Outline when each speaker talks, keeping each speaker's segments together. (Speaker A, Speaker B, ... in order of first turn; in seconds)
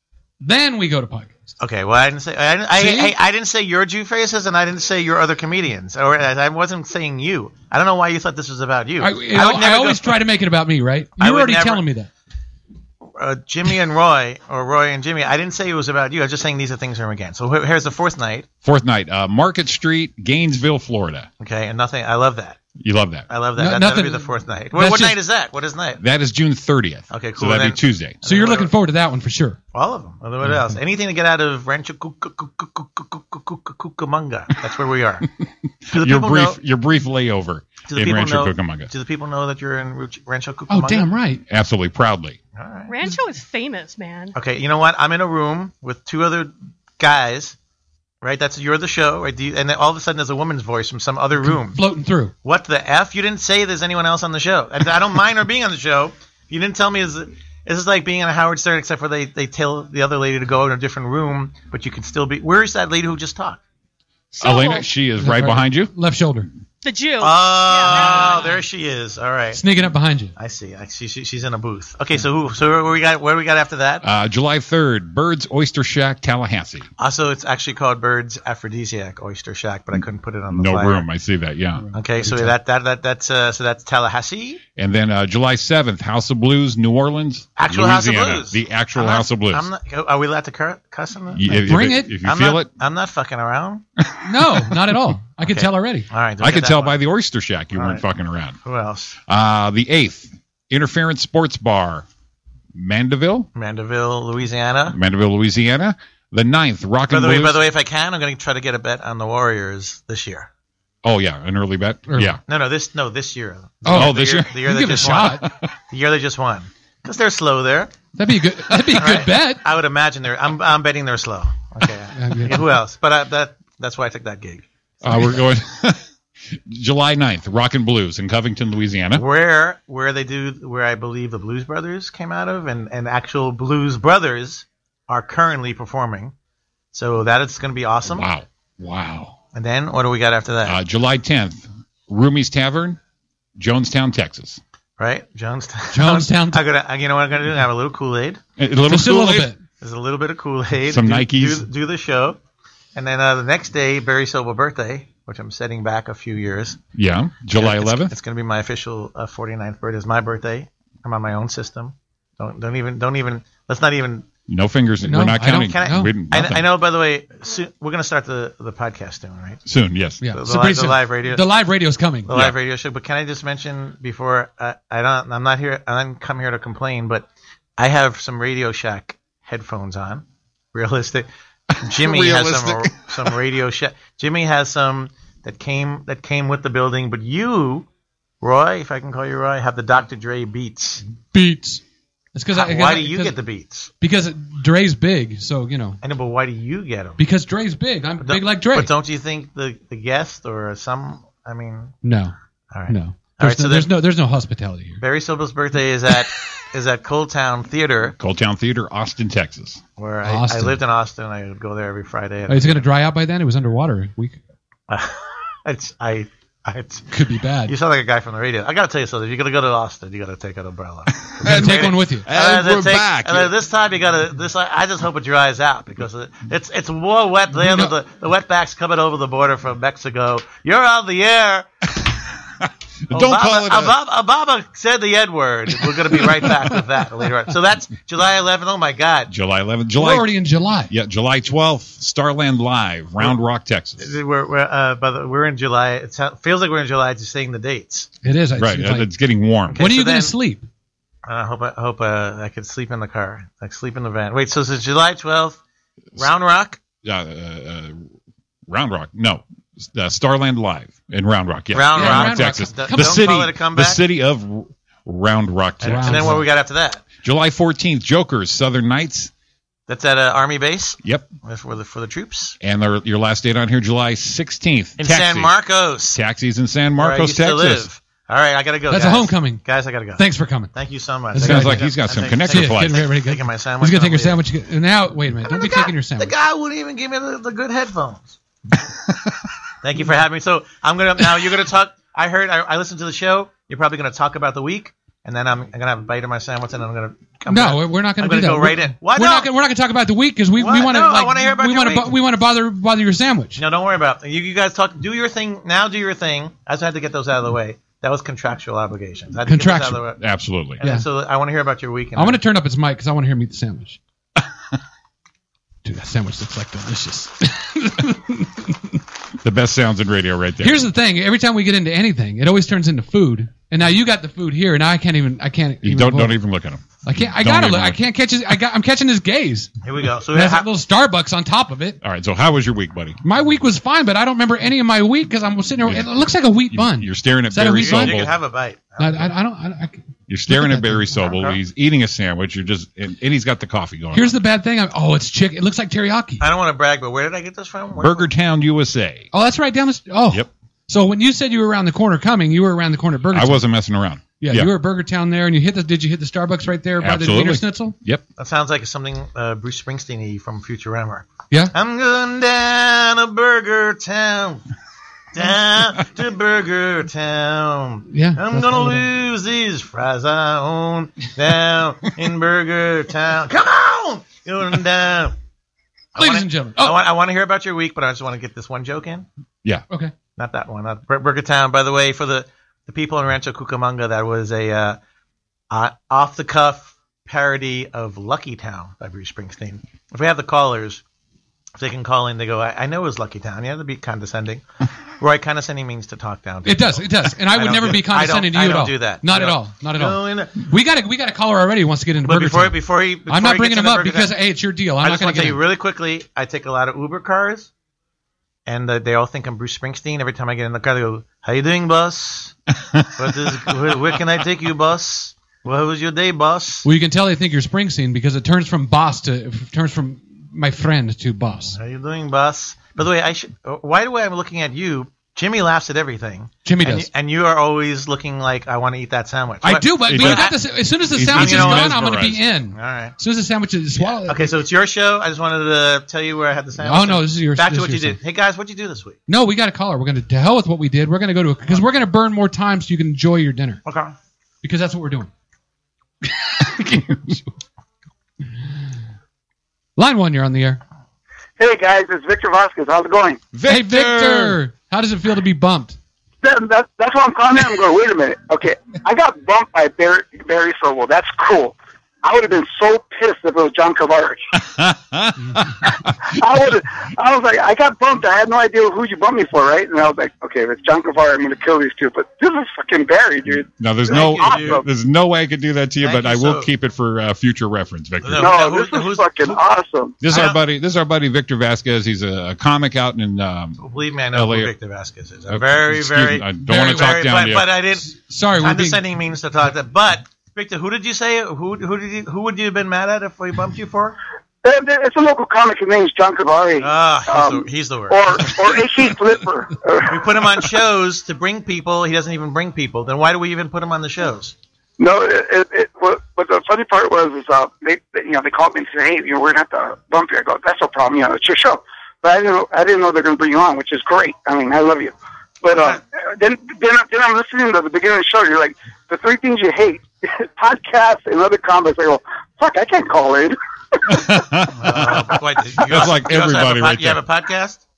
Speaker A: 0.4-1.3, 2.7-3.1, 9.0-12.1, 23.6-25.2, 28.2-29.6, 40.7-41.4, 51.4-52.3, 65.2-66.5, 69.5-70.3, 81.8-82.5, 91.5-92.2, 94.2-96.1, 112.1-112.4, 113.8-115.5, 118.1-119.6, 122.1-122.7, 125.0-125.3, 145.9-146.6, 148.9-149.6, 165.0-166.1, 170.2-172.3, 191.3-191.8, 192.3-193.3, 194.0-196.0, 197.2-198.9, 202.0-202.3, 202.9-205.0, 210.2-210.8, 212.5-214.4, 217.1-217.7, 221.4-222.3, 227.6-227.9, 240.0-240.9, 248.2-249.1, 249.8-250.7, 261.9-263.2, 265.8-266.4, 278.9-279.6, 280.1-280.7, 281.3-286.3, 297.5-303.6, 309.4-310.0, 312.1-314.0, 315.8-319.0, 320.6-326.4, 327.0-329.7, 330.3-332.0, 333.2-338.3, 339.0-341.2, 344.1-346.4, 349.3-353.6, 354.4-357.9, 368.1-369.1, 376.1-377.1, 396.6-405.6, 416.8-421.8, 426.6-427.1, 429.6-434.5, 436.8-438.2, 439.3-443.8, 444.6-445.3, 446.5-447.5, 450.0-450.8, 453.6-456.0, 488.0-489.0
Speaker B: 1.6-10.2, 11.2-11.8, 13.1-18.5, 21.4-22.6, 23.3-26.0, 27.1-28.7, 29.7-35.3, 35.9-36.6, 37.9-41.1, 42.5-42.9, 44.3-47.5, 48.2-51.8, 52.4-63.6, 67.2-69.6, 70.3-74.0, 77.0-81.0, 81.9-84.6, 87.6-93.8, 95.4-97.0, 97.7-98.0, 98.6-99.2, 103.5-105.0, 107.1-110.5, 112.5-117.9, 118.9-124.7, 129.1-136.3, 136.9-138.3, 139.5-140.8, 145.0-148.4, 149.8-152.4, 152.9-156.8, 157.5-164.3, 165.6-169.6, 170.3-171.5, 172.2-181.3, 181.8-187.9, 188.4-191.0, 192.5-193.9, 196.0-197.2, 198.2-201.9, 202.7-203.9, 205.0-208.1, 210.0-212.8, 214.9-217.1, 217.7-231.7, 233.1-239.3, 244.0-248.1, 249.7-250.3, 251.2-255.6, 256.2-256.8, 261.7-264.0, 265.8-267.0, 269.9-272.6, 275.0-276.2, 277.0-284.4, 285.4-288.4, 289.8-299.5, 300.6-302.2, 303.6-310.2, 310.8-312.4, 329.8-330.7, 337.7-339.3, 341.2-341.6, 346.4-348.3, 358.4-364.6, 365.3-375.3, 376.1-379.3, 380.4-385.0, 385.7-391.0, 391.8-394.6, 395.2-400.5, 402.2-404.4, 405.0-407.7, 408.6-412.5, 413.1-416.9, 421.7-430.6, 431.3-431.9, 432.7-433.1, 434.2-439.2, 443.8-444.1, 474.1-474.8, 476.0-476.7, 478.2-479.6, 480.2-480.6, 483.8-494.2, 496.8-498.4, 500.1-504.5, 515.7-516.0, 524.7-527.8
Speaker C: 18.6-21.3, 22.8-23.3, 26.0-28.2, 35.8-38.9, 41.5-42.4, 64.4-65.9, 74.0-76.9, 80.5-81.8, 84.8-89.7, 91.3-92.7, 96.4-98.6, 99.3-102.0, 102.7-103.5, 104.9-107.6, 111.0-112.4, 113.9-115.7, 125.0-126.0, 126.5-129.2, 138.1-139.3, 140.6-143.0, 143.6-144.6, 148.6-149.5, 150.9-151.7, 156.9-158.2, 164.5-166.7, 169.6-170.2, 172.3-172.6, 181.8-183.3, 208.2-209.8, 221.1-223.5, 233.1-234.0, 239.3-240.3, 240.9-244.1, 248.6-249.8, 257.0-258.1, 258.7-266.4, 267.2-269.3, 271.0-271.3, 272.6-275.5, 276.1-277.9, 281.4-283.1, 310.2-310.8, 319.4-320.9, 325.8-328.0, 332.0-333.2, 335.8-338.3, 340.3-344.4, 348.0-349.3, 353.3-354.7, 357.0-358.2, 430.0-430.5, 431.1-432.4, 453.5-454.6, 464.6-466.1, 473.4-478.5, 480.2-483.8, 484.3-484.7, 485.5-487.7, 524.1-527.2
Speaker D: 42.9-44.3, 64.4-64.9, 66.8-68.6
Speaker E: 451.6-453.4, 456.4-464.4, 466.3-474.8, 478.4-480.2, 494.6-500.2, 505.0-524.3